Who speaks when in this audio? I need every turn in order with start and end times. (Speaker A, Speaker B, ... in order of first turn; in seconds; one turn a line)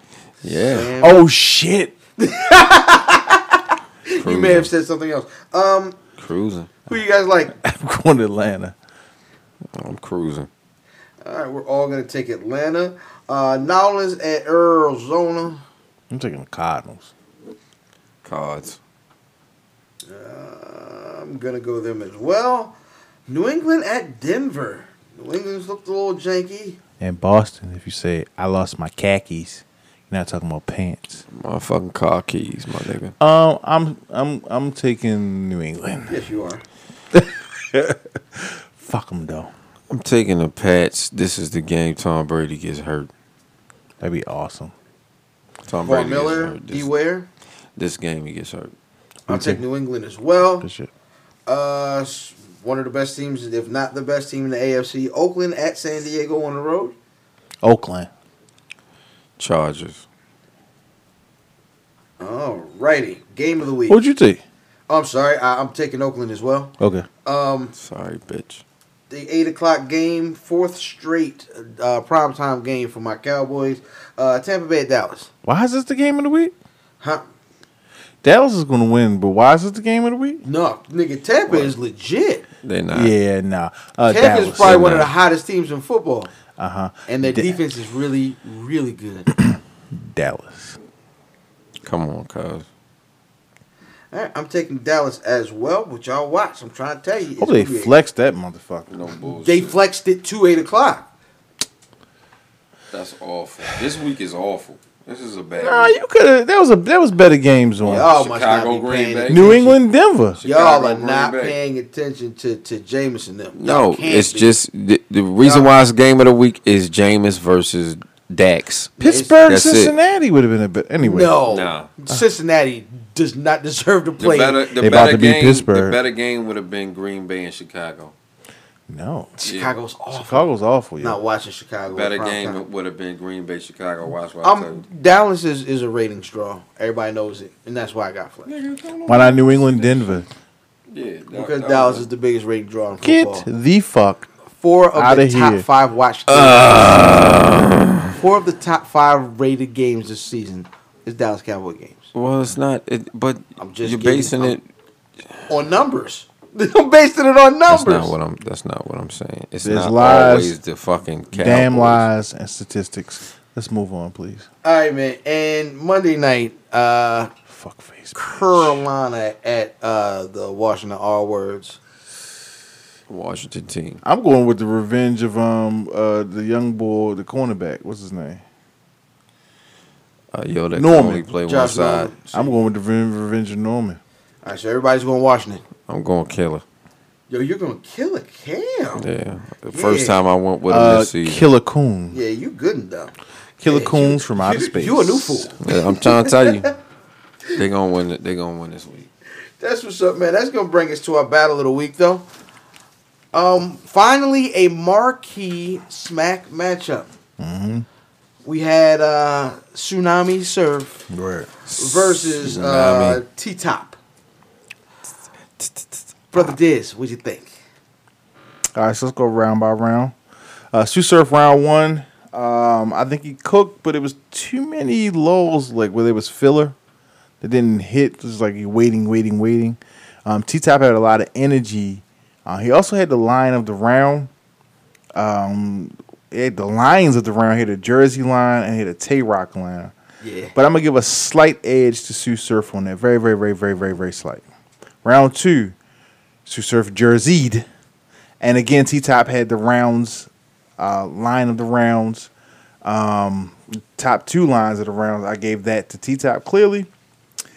Speaker A: 0.4-0.9
Speaker B: 0.5-1.2
Speaker C: 1.0-1.9
Speaker B: 2.2-6.0
Speaker A: 4.2-4.7
Speaker A: 6.2-6.7
Speaker B: 6.9-7.5
Speaker C: 7.5-8.7
Speaker A: 9.7-10.5
Speaker B: 11.2-15.6
Speaker C: 16.1-17.1
Speaker A: 18.2-18.8
Speaker B: 20.0-22.8
Speaker B: 23.3-26.8
Speaker C: 27.0-31.2
Speaker A: 31.3-33.1
Speaker C: 33.2-36.2
Speaker B: 36.1-36.6
Speaker C: 37.1-39.5
Speaker A: 39.9-43.1
Speaker C: 44.0-44.7
Speaker A: 45.7-46.9
Speaker B: 45.8-47.3
Speaker A: 47.8-48.7
Speaker C: 49.3-49.6
Speaker B: 49.3-50.7
Speaker C: 50.6-50.9
Speaker B: 51.5-56.9
Speaker C: 57.6-58.1
Speaker A: 59.4-60.0
Speaker B: 62.2-64.0
Speaker C: 63.9-64.4
Speaker B: 64.9-67.7
Speaker C: 66.8-67.1
Speaker A: 67.7-68.6
Speaker B: 69.1-75.3
Speaker C: 75.4-76.5
Speaker C: 78.2-80.4
Speaker B: 80.4-82.5
Speaker A: 82.6-83.1
Speaker C: 82.9-85.0
Speaker B: 84.1-86.3
Speaker A: 84.6-85.1
Speaker C: 86.6-87.6
Speaker B: 87.1-89.3
Speaker C: 89.3-90.8
Speaker A: 91.8-92.7
Speaker B: 94.1-97.9
Speaker C: 97.4-98.9
Speaker A: 98.9-99.8
Speaker B: 99.4-101.1
Speaker A: 102.9-106.0
Speaker C: 105.6-108.1
Speaker A: 107.8-109.6
Speaker B: 107.8-109.8
Speaker C: 109.3-110.4
Speaker A: 110.3-111.6
Speaker B: 110.4-114.5
Speaker A: 113.5-119.9
Speaker B: 115.4-115.7
Speaker B: 119.0-119.4
Speaker C: 119.0-121.4
Speaker B: 121.0-124.6
Speaker A: 121.5-121.9
Speaker A: 124.2-128.1
Speaker C: 124.8-126.0
Speaker C: 128.9-129.4
Speaker B: 129.4-132.6
Speaker A: 129.4-129.7
Speaker C: 130.1-131.2
Speaker A: 131.9-134.8
Speaker B: 134.4-138.5
Speaker A: 138.4-140.2
Speaker C: 139.1-140.2
Speaker A: 140.9-142.1
Speaker B: 141.3-143.4
Speaker C: 143.0-144.3
Speaker B: 144.6-147.2
Speaker C: 144.9-145.6
Speaker A: 146.3-148.0
Speaker B: 148.1-152.1
Speaker A: 152.1-154.6
Speaker B: 153.6-154.6
Speaker B: 155.5-158.1
Speaker A: 157.7-162.0
Speaker C: 159.6-160.6
Speaker C: 161.3-164.4
Speaker B: 164.6-167.3
Speaker C: 167.5-168.8
Speaker B: 168.1-171.8
Speaker A: 173.1-174.0
Speaker C: 174.0-178.4
Speaker A: 180.3-182.1
Speaker C: 180.7-181.2
Speaker B: 181.4-182.6
Speaker C: 182.3-184.0
Speaker B: 184.4-185.6
Speaker A: 185.9-186.6
Speaker B: 187.3-189.0
Speaker A: 189.0-191.4
Speaker B: 189.7-190.2
Speaker C: 190.7-192.2
Speaker B: 192.1-193.1
Speaker C: 193.6-195.5
Speaker B: 193.6-196.7
Speaker A: 195.6-196.7
Speaker A: 197.5-199.1
Speaker B: 199.6-202.2
Speaker B: 203.3-207.1
Speaker C: 207.4-207.8
Speaker B: 208.4-211.1
Speaker C: 211.1-211.5
Speaker A: 211.7-213.2
Speaker B: 211.8-214.0
Speaker A: 215.6-216.5
Speaker B: 216.3-217.5
Speaker C: 218.7-220.1
Speaker C: 220.7-226.7
Speaker C: 227.4-234.3
Speaker C: 235.2-239.9
Speaker B: 240.2-240.5
Speaker C: 240.5-244.4
Speaker C: 245.0-245.7
Speaker C: 246.4-247.7
Speaker C: 248.4-252.3
Speaker C: 252.8-256.9